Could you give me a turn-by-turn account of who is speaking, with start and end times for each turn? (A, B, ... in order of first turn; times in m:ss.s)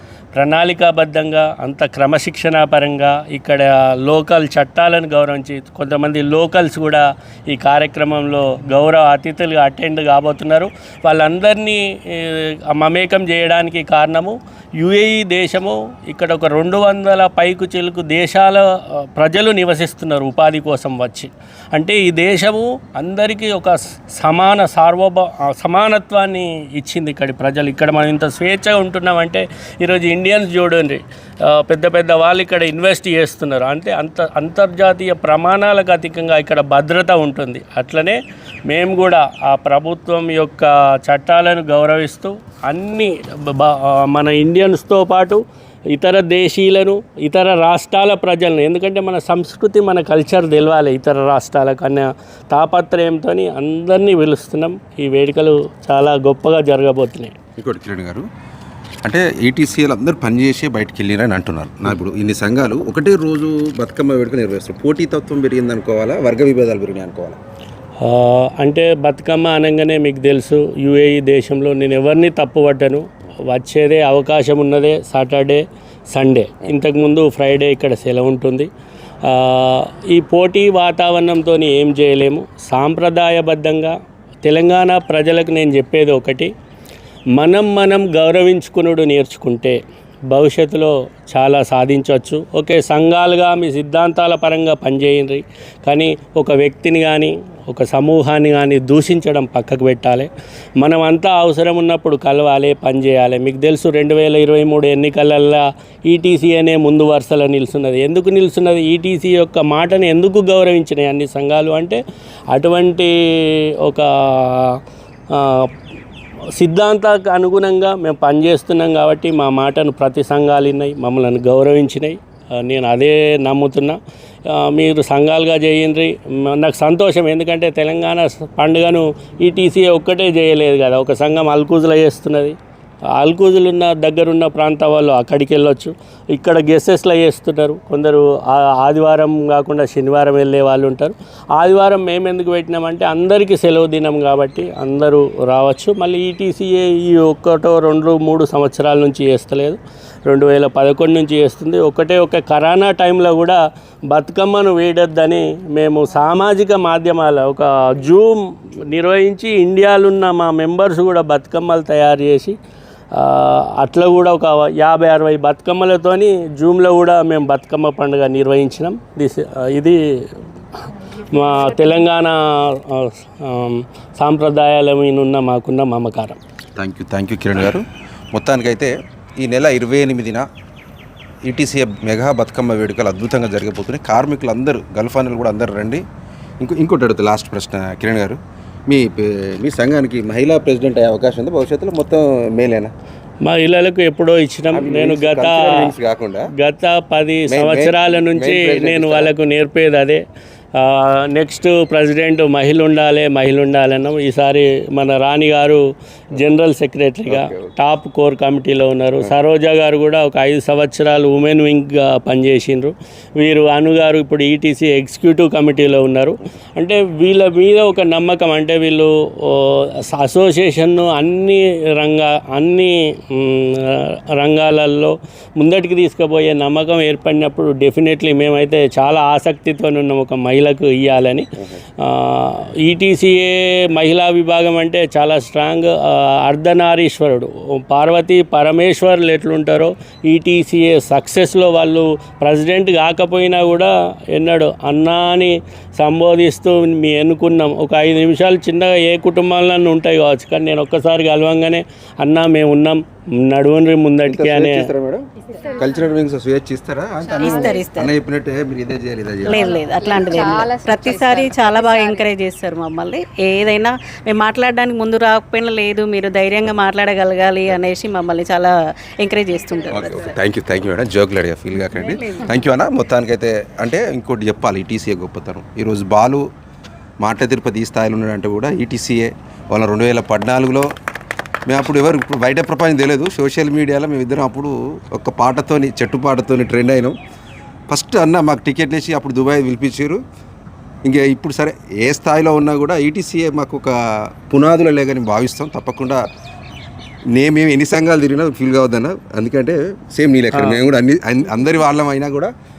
0:00.4-0:57.4 A
0:57.6-0:58.3 B
0:59.0-1:07.4 B
1:08.0-1:18.7 A
1:19.2-1:26.5 A
1:27.4-1:52.0 A
1:52.5-1:54.8 A
1:55.3-1:55.7 A
1:56.6-2:12.6 A
2:13.2-2:42.6 A
2:43.1-2:50.3 A
2:50.9-2:56.4 A
2:56.8-3:00.5 B
3:01.5-3:06.0 B
3:06.6-3:12.9 B
3:13.4-3:15.9 A
3:14.7-3:16.5 B
3:16.6-3:20.2 A
3:17.5-3:19.3 B
3:20.8-3:51.5 A
3:27.3-3:27.7 B
3:52.0-4:14.9 A
4:14.3-4:19.8 B
4:17.4-4:18.2 C
4:19.4-4:30.4 C
4:29.9-4:36.5 B
4:37.2-4:40.9 B
4:41.7-4:47.2 B
4:47.9-4:50.2 B
4:51.0-4:54.0 B
4:54.5-4:56.2 B
4:57.3-5:02.5 B